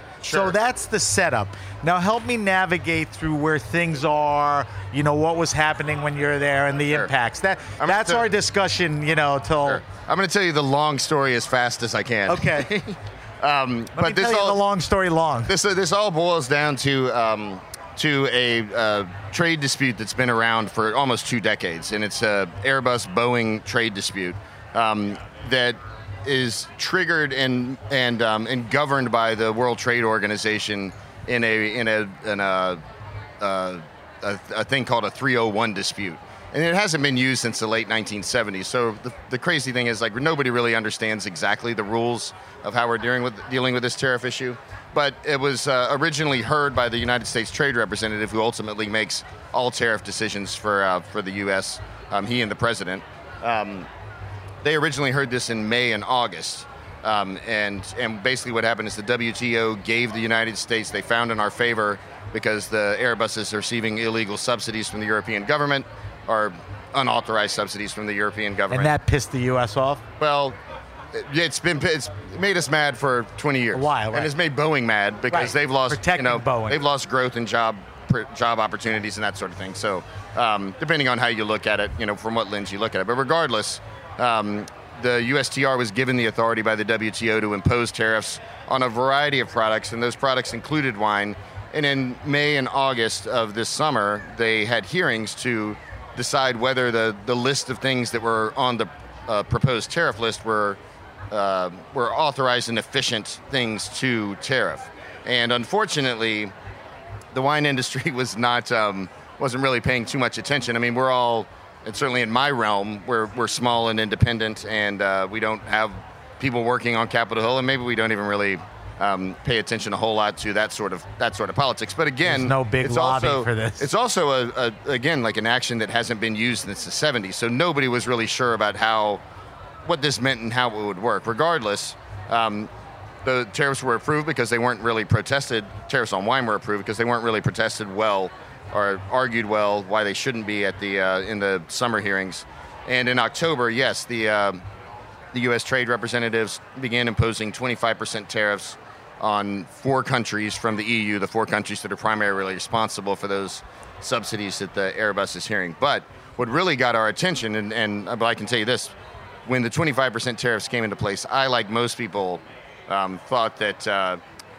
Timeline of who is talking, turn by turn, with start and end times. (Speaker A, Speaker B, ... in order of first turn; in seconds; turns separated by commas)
Speaker A: 0.2-0.6, Speaker B: 0.3-9.8, Speaker A: 7.8-8.3, Speaker A: 9.6-14.6, Speaker B: 12.3-12.7, Speaker B: 13.9-15.5, Speaker A: 15.5-32.8, Speaker A: 33.4-53.9, Speaker A: 54.6-68.9, Speaker B: 68.7-70.0, Speaker A: 70.2-70.6, Speaker A: 71.1-100.8, Speaker B: 73.7-74.3, Speaker B: 75.3-76.8, Speaker A: 101.3-106.5, Speaker A: 107.3-129.2, Speaker B: 122.2-123.9, Speaker A: 129.8-132.7, Speaker A: 133.2-144.6, Speaker A: 145.3-158.9, Speaker A: 159.4-164.2